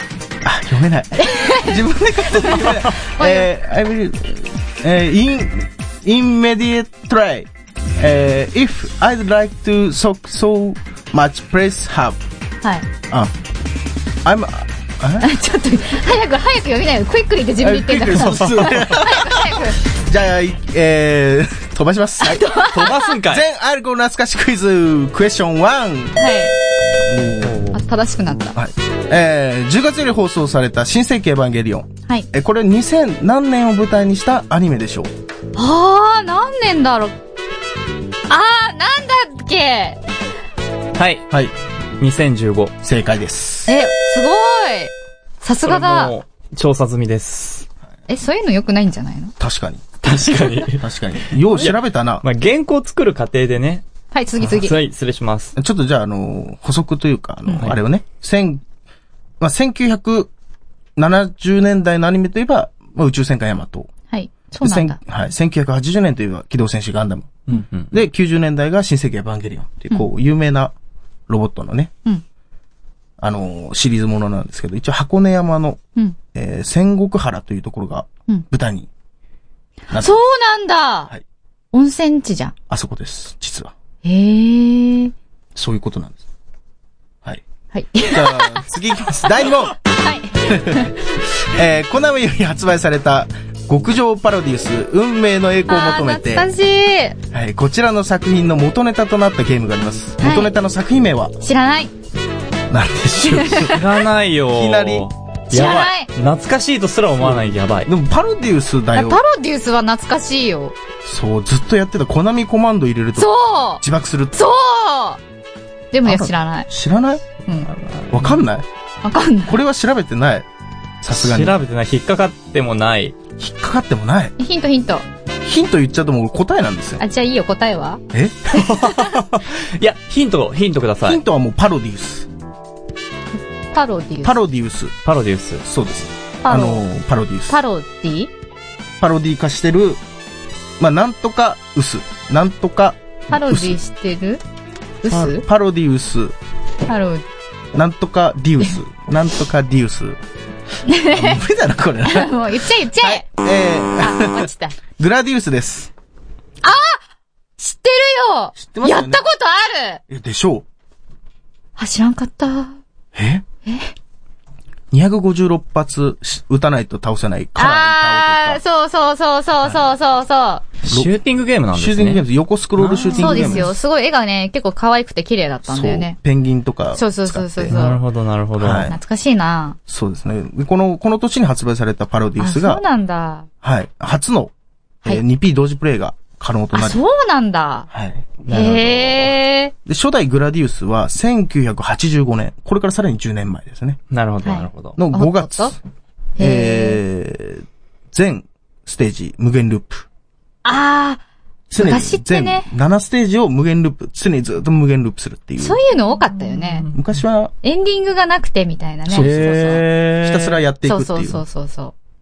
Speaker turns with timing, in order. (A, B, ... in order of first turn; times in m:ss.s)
0:00.4-0:12.2 A
0:01.2-0:03.5 B
0:14.2-0:15.3 A
0:15.2-0:19.8 B
0:17.6-0:26.2 A
0:18.4-0:18.8 C
0:22.2-0:23.0 B
0:22.7-0:23.4 C
0:26.2-0:26.5 B
0:27.1-0:27.7 A
0:27.4-0:27.8 C
0:27.7-0:28.6 B
0:28.6-0:35.1 A
0:35.6-0:37.2 B
0:38.3-0:40.0 B
0:41.0-0:41.3 C
0:42.0-0:42.7 C
0:42.8-0:43.7 A
0:43.7-0:46.1 B
0:45.7-0:47.7 C
0:48.1-0:49.3 B
0:49.4-0:52.2 A
0:50.0-0:53.8 C
0:54.1-0:54.8 B
0:54.4-0:55.5 C
0:55.6-0:58.6 A
0:57.5-0:57.8 C
0:59.4-1:00.3 A
1:01.0-1:03.9 A
1:04.1-1:05.0 B
1:04.6-1:10.7 A
1:07.5-1:07.9 C
1:11.3-1:11.9 A
1:13.2-1:15.8 A
1:16.3-1:18.9 A
1:19.9-1:20.2 A
1:19.9-1:21.1 B
1:21.7-1:22.5 B
1:22.7-1:23.7 A
1:24.0-1:25.1 B
1:25.6-1:26.2 A
1:27.7-1:28.6 B
1:28.1-1:29.8 A
1:29.8-1:31.0 B
1:30.4-1:36.5 A
1:35.7-1:37.2 B
1:37.3-1:41.4 A
1:40.2-1:40.5 B
1:41.4-1:41.9 B
1:42.7-1:44.0 A
1:43.4-1:43.8 B
1:43.6-1:47.9 C
1:44.5-1:45.1 A
1:45.5-1:46.1 B
1:47.2-1:49.2 A
1:49.0-1:50.8 B
1:51.0-1:54.4 A
1:53.2-1:55.2 B
1:55.9-1:56.7 B
1:56.0-1:57.3 A
1:57.9-1:58.4 C
1:58.1-1:58.7 A
1:59.0-1:59.6 B
1:59.5-2:00.5 A
2:01.0-2:01.6 A
2:01.1-2:03.2 C
2:03.4-2:04.3 A
2:04.4-2:05.0 B
2:05.4-2:07.0 A
2:07.0-2:08.0 B
2:08.1-2:08.8 A
2:08.6-2:11.2 C
2:08.6-2:09.1 B
2:11.0-2:12.3 A
2:13.7-2:14.4 B
2:14.2-2:14.9 A
2:15.0-2:15.6 C
2:15.6-2:17.5 A
2:16.4-2:16.8 B
2:17.5-2:18.3 B
2:19.0-2:20.0 A
2:20.8-2:23.8 A
2:23.3-2:24.4 B
2:25.0-2:25.4 B
2:25.1-2:26.4 A
2:26.9-2:27.2 B
2:27.7-2:30.2 A
2:30.9-2:31.4 B
2:31.1-2:35.9 A
2:32.1-2:33.3 B
2:34.0-2:34.8 B
2:36.6-2:37.0 B
2:37.6-2:40.0 B
2:38.6-2:39.2 A
2:40.1-2:40.7 A
2:41.8-2:42.8 B
2:43.1-2:43.4 A
2:43.7-2:43.9 B
2:44.9-2:48.6 A
2:47.6-2:50.6 B
2:50.8-2:52.2 C
2:51.7-2:53.7 A
2:52.8-2:53.7 C
2:53.2-2:56.2 B
2:55.7-2:57.8 A
2:57.0-2:58.0 B
2:57.7-2:58.9 C
2:58.6-2:59.0 A
2:58.9-2:59.8 B
2:59.9-3:02.8 A
3:02.4-3:03.5 B
3:03.6-3:04.5 A
3:05.0-3:07.0 A
3:06.7-3:07.9 B
3:07.9-3:08.5 A
3:08.4-3:09.3 C
3:08.5-3:09.7 B
3:09.9-3:14.0 A
3:14.1-3:15.0 C
3:14.4-3:15.8 B
3:15.0-3:15.8 A
3:16.4-3:17.0 B
3:16.4-3:20.1 A
3:20.6-3:21.2 B
3:21.7-3:25.8 A
3:21.8-3:22.7 B
3:25.6-3:26.9 B
3:26.9-3:27.5 A
3:27.6-3:29.8 B
3:29.1-3:29.5 A
3:29.2-3:30.6 C
3:30.2-3:31.4 A
3:30.8-3:31.9 B